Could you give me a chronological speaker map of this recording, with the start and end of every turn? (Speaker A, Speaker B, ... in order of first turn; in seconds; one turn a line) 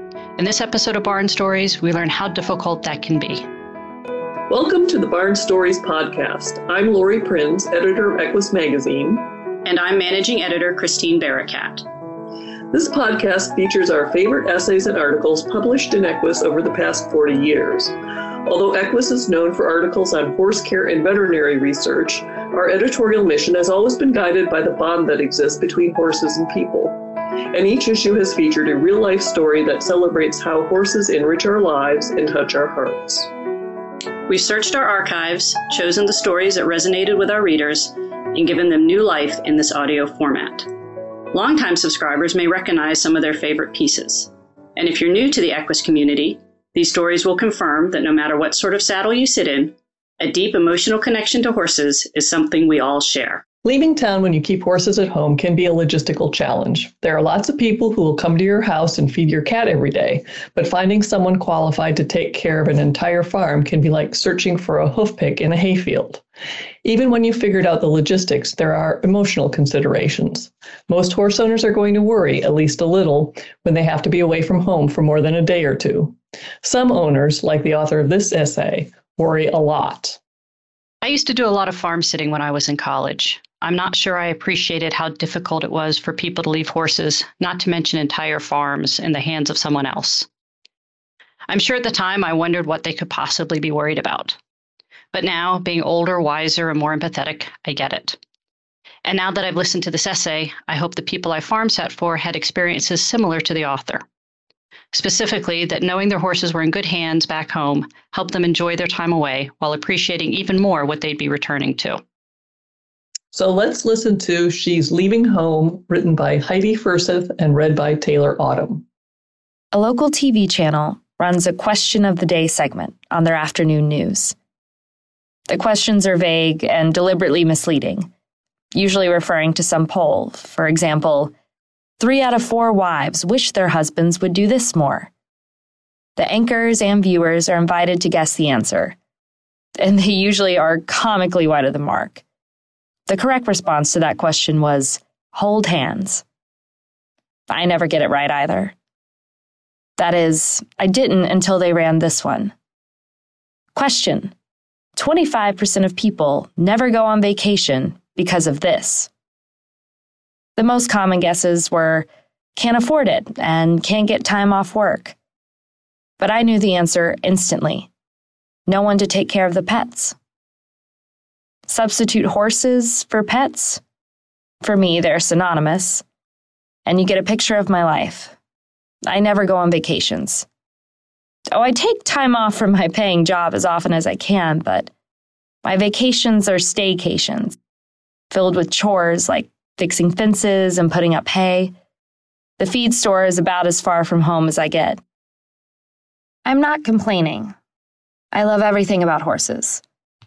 Speaker A: 0.4-3.5
Speaker B: 4.5-9.3
Speaker A: 9.6-11.9
Speaker B: 12.7-17.9
Speaker B: 18.5-27.0
Speaker B: 27.5-33.3
Speaker A: 34.3-40.7
Speaker A: 41.3-53.5
Speaker B: 53.6-66.2
Speaker B: 66.8-80.2
Speaker A: 81.0-90.3
Speaker A: 91.5-94.4
Speaker A: 95.1-98.2
Speaker A: 99.0-104.1
Speaker A: 104.9-112.0
Speaker B: 113.3-118.8
Speaker C: 119.7-124.4
Speaker C: 125.5-128.1
Speaker C: 128.7-131.3
Speaker C: 132.0-135.1
Speaker C: 136.2-139.0
Speaker C: 139.8-142.2
Speaker C: 143.1-146.2
Speaker C: 147.5-148.7
Speaker C: 150.0-152.5
Speaker C: 153.8-154.3
Speaker C: 155.0-159.1
Speaker C: 160.6-165.2
Speaker C: 166.2-167.9
Speaker C: 168.7-170.2
Speaker C: 171.7-173.8
Speaker C: 174.6-176.1
Speaker C: 176.9-178.4
Speaker C: 179.1-180.5
Speaker C: 181.5-184.9
Speaker C: 185.6-187.6
Speaker C: 188.3-191.7
Speaker C: 192.6-195.0
Speaker C: 196.4-197.5
Speaker C: 198.3-199.8